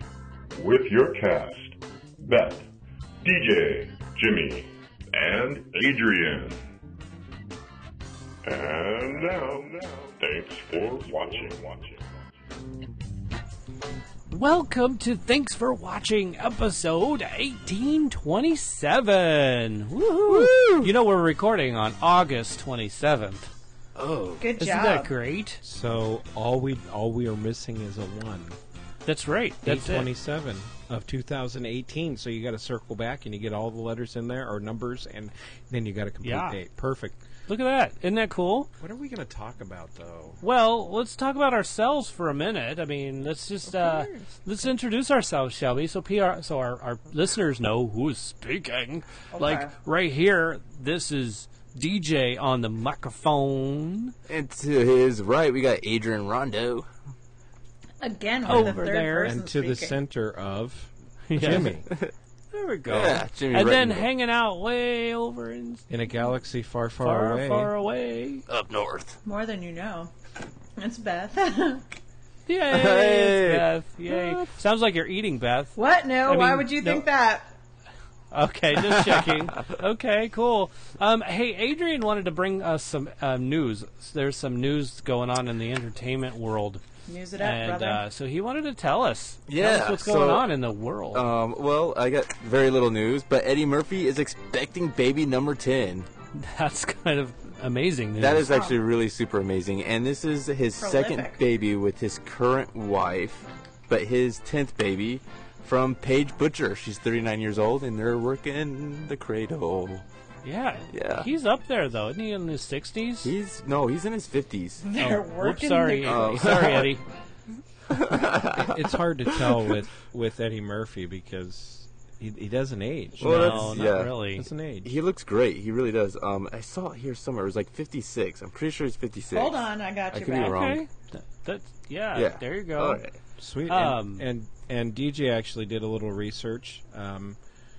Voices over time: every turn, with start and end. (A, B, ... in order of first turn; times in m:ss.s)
0:00.5-0:02.7 A
0:03.2-0:06.6 A
0:08.4-0:12.0 A
0:14.3-0:23.5 B
0:20.3-0:20.9 C
0:24.0-0:24.5 C
0:24.4-0:25.1 D
0:24.6-0:25.6 B
0:25.6-0:28.6 E
0:29.1-0:30.1 B
0:29.6-0:37.2 E
0:36.2-0:36.6 B
0:37.5-0:38.7 B
0:38.8-0:40.4 E
0:40.4-0:54.1 B
0:43.8-0:44.2 E
0:49.3-0:49.7 D
0:54.3-0:56.9 C
0:58.0-1:00.0 D
0:58.4-0:59.4 B
0:58.5-1:01.9 E
1:01.3-1:01.7 B
1:01.4-1:02.1 C
1:02.5-1:05.8 B
1:02.9-1:04.1 C
1:05.9-1:07.7 E
1:07.0-1:08.4 B
1:08.5-1:09.2 C
1:09.2-1:10.1 D
1:10.8-1:11.8 D
1:12.5-1:17.1 B
1:12.7-1:14.5 C
1:15.8-1:17.5 D
1:18.3-1:26.8 B
1:18.9-1:19.6 C
1:27.1-1:28.0 D
1:27.4-1:31.2 B
1:29.5-1:30.5 C
1:31.1-1:36.1 C
1:36.3-1:38.5 B
1:38.2-1:50.0 C
1:38.5-1:38.8 D
1:40.8-1:41.4 D
1:50.4-1:53.3 B
1:50.9-1:51.3 C
1:53.2-1:54.8 C
1:54.8-1:56.6 D
1:55.0-1:57.0 B
1:56.0-1:56.9 C
1:57.9-1:59.8 C
1:58.5-2:04.9 E
2:03.2-2:04.1 C
2:03.2-2:04.5 B
2:04.8-2:10.8 C
2:09.3-2:10.6 D
2:10.3-2:13.0 B
2:12.2-2:13.2 C
2:13.4-2:17.4 E
2:13.7-2:14.3 B